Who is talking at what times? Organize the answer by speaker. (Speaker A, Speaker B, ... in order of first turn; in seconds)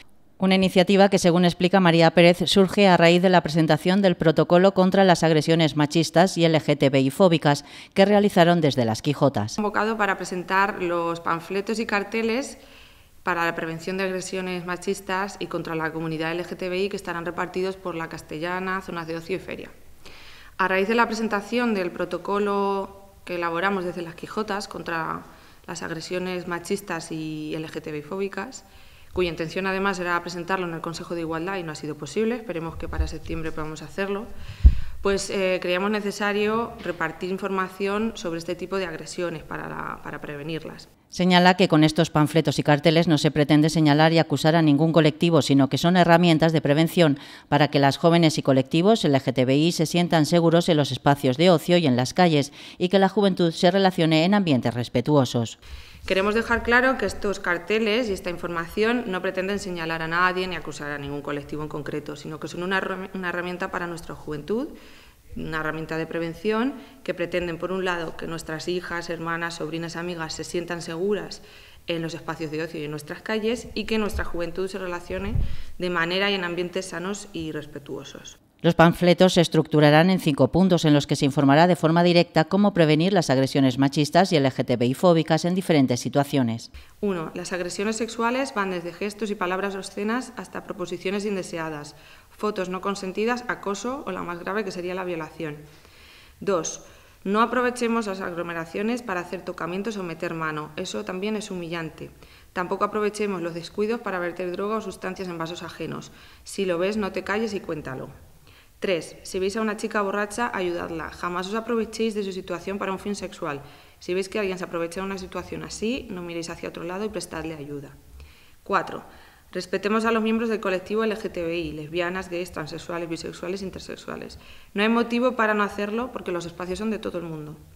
Speaker A: 0.4-9.6, 41.1-55.5, 78.6-86.7
Speaker B: 9.6-12.6, 13.2-19.7, 20.6-34.3, 35.0-40.9, 56.0-64.7, 65.3-78.4, 87.0-95.6, 96.4-108.1, 108.8-118.0, 118.6-127.6